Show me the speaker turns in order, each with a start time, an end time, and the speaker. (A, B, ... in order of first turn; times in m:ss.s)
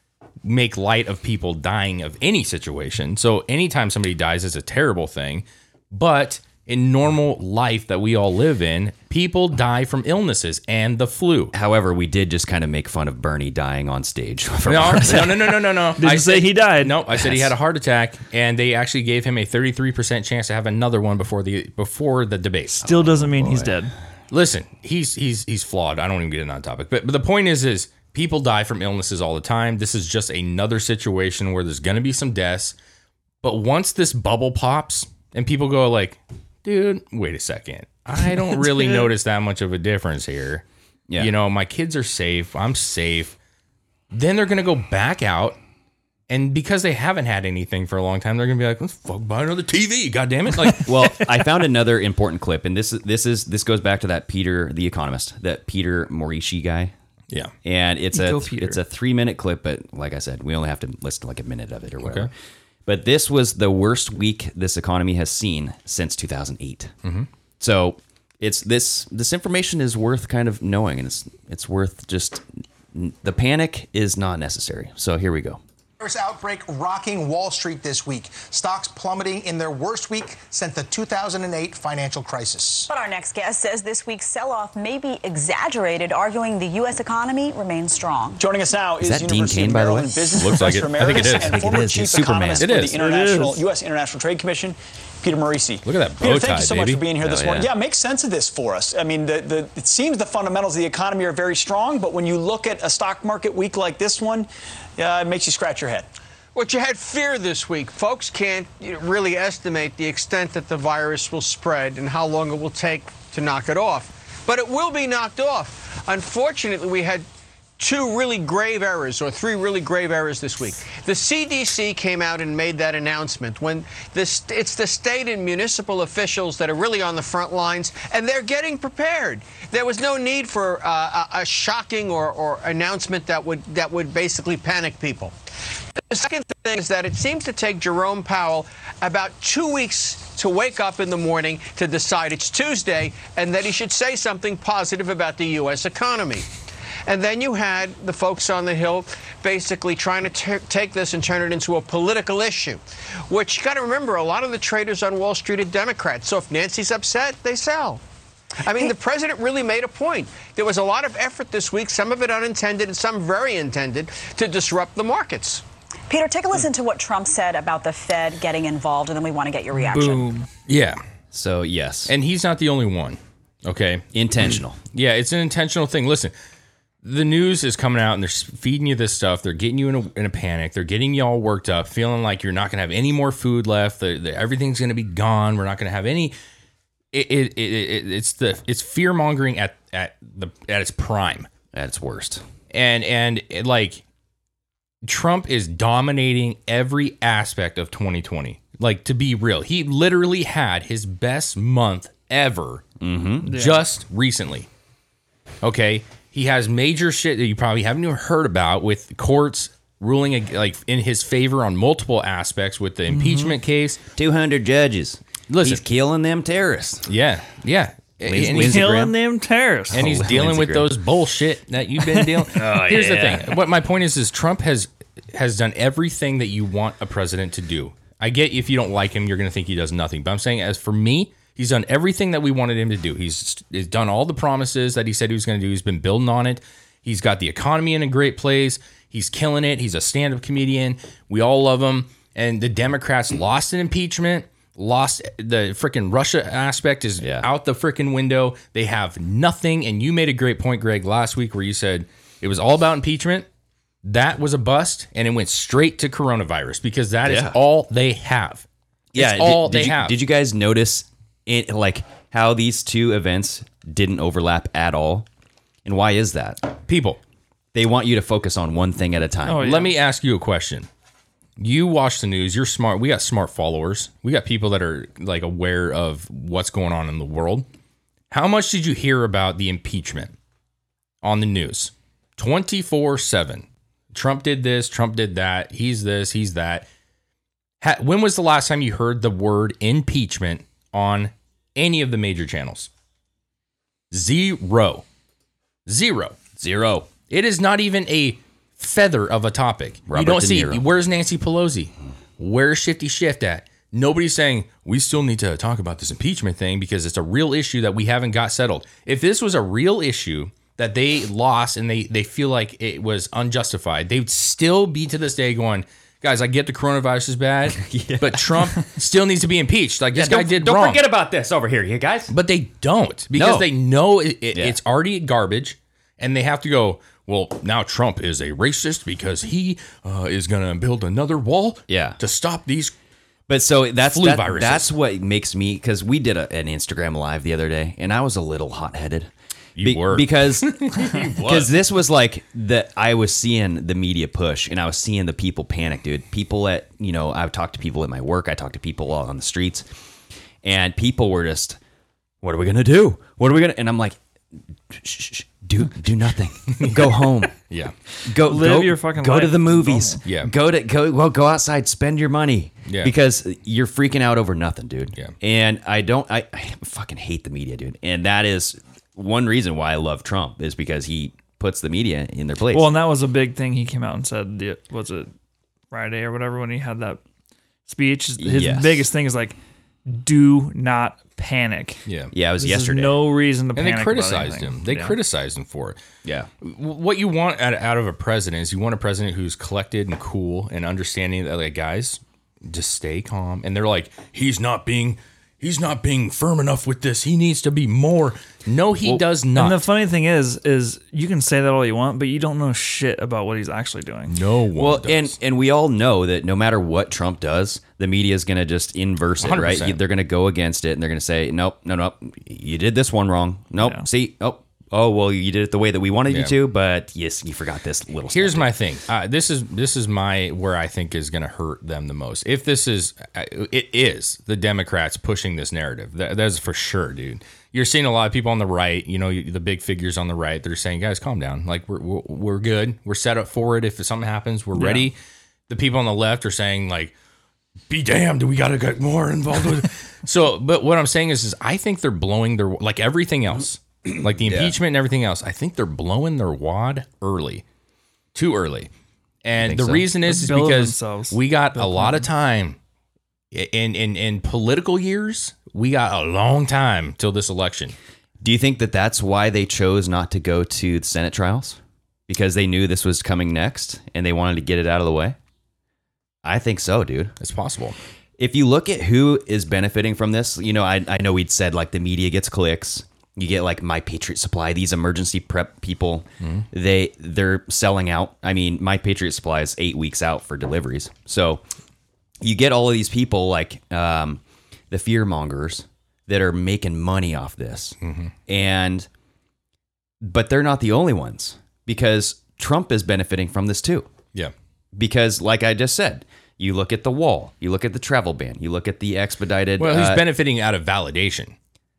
0:00.4-0:11.5 A
0:11.5-0:15.6 B
0:14.6-0:22.8 A
0:16.0-0:17.0 C
0:17.2-0:17.5 B
0:22.8-0:23.9 C
0:22.8-0:23.7 B
0:24.3-0:32.8 A
0:33.4-0:40.6 A
0:41.2-0:43.4 A
0:44.1-0:45.6 A
0:46.3-0:51.3 A
0:50.6-0:56.9 B
0:57.6-1:02.3 B
0:58.1-0:58.8 C
1:02.0-1:02.3 A
1:02.8-1:06.9 B
1:07.6-1:15.6 B
1:16.0-1:22.9 D
1:22.9-1:28.4 E
1:28.4-1:46.1 F
1:29.0-1:32.8 B
1:30.4-1:31.8 A
1:32.6-1:33.0 A
1:33.0-1:33.6 C
1:35.8-1:37.0 A
1:37.2-1:37.7 B
1:46.5-1:57.2 G
1:57.8-2:15.3 G
2:16.1-2:26.5 G
2:27.0-2:38.0 G
2:38.6-2:45.6 G
2:46.1-2:50.3 E
2:49.7-2:50.5 C
2:50.7-2:51.0 A
2:51.3-2:52.1 B
2:52.1-2:56.3 A
2:54.1-2:54.8 B
2:57.0-3:06.3 A
3:07.1-3:11.5 A
3:11.7-3:12.4 B
3:12.7-3:14.0 A
3:15.0-3:22.8 A
3:23.0-3:23.5 B
3:23.4-3:23.8 C
3:23.4-3:24.7 A
3:25.6-3:34.0 A
3:33.1-3:33.6 C
3:34.2-3:37.1 B
3:35.5-3:35.8 A
3:37.0-3:39.1 A
3:38.2-3:39.1 B
3:38.6-3:40.0 C
3:39.9-4:13.5 A
3:39.9-3:40.9 B
3:42.5-3:43.5 B
4:07.2-4:07.5 B
4:14.0-4:20.2 A
4:17.2-4:17.6 B
4:19.1-4:25.3 B
4:25.8-4:26.7 B
4:26.8-4:27.2 A
4:27.7-4:29.6 B
4:29.4-4:29.9 C
4:29.5-4:30.9 A
4:31.6-4:37.7 A
4:38.3-4:40.4 A
4:41.2-4:46.9 A
4:47.8-4:52.9 A
4:54.1-4:55.0 A
4:55.8-4:56.4 A
4:56.6-4:57.1 B
4:57.3-5:21.0 A
5:00.1-5:00.8 B
5:17.8-5:18.8 B
5:20.1-5:22.3 B
5:22.3-5:32.9 A
5:23.3-5:23.7 B
5:31.9-5:32.2 B
5:33.5-5:49.9 B
5:34.0-5:34.9 A
5:39.8-5:41.7 A
5:50.6-5:51.8 B
5:52.4-5:54.2 B
5:54.9-5:57.5 B
5:56.7-5:57.9 A
5:58.2-6:12.9 B
5:58.4-6:00.2 C
6:00.2-6:00.5 A
6:02.9-6:03.1 A
6:12.7-6:15.3 C
6:15.9-6:17.2 C
6:17.9-6:22.0 C
6:18.4-6:19.1 B
6:22.0-6:22.3 A
6:22.3-6:23.2 B
6:22.6-6:25.1 C
6:23.7-6:26.0 A
6:26.2-6:26.5 B
6:26.6-6:39.8 A
6:39.5-6:44.4 C
6:44.3-6:45.4 A
6:44.8-6:58.7 B
6:49.4-6:50.0 A
6:53.8-6:54.0 C
6:56.3-6:56.5 A
6:58.3-7:15.2 A
7:14.8-7:15.0 C
7:15.7-7:17.1 A
7:17.9-7:27.6 A
7:24.0-7:24.7 B
7:28.3-7:28.9 A
7:29.4-7:32.8 A
7:29.6-7:30.1 B
7:30.2-7:32.3 C
7:33.5-7:38.0 A
7:38.4-7:45.4 B
7:46.4-7:47.3 B
7:47.4-7:48.0 A
7:48.4-8:01.6 B
7:56.4-7:56.6 A
8:02.4-8:08.0 B
8:08.0-8:08.3 A
8:08.5-8:09.1 B
8:10.2-8:14.1 B
8:14.9-8:20.2 B
8:19.8-8:21.5 A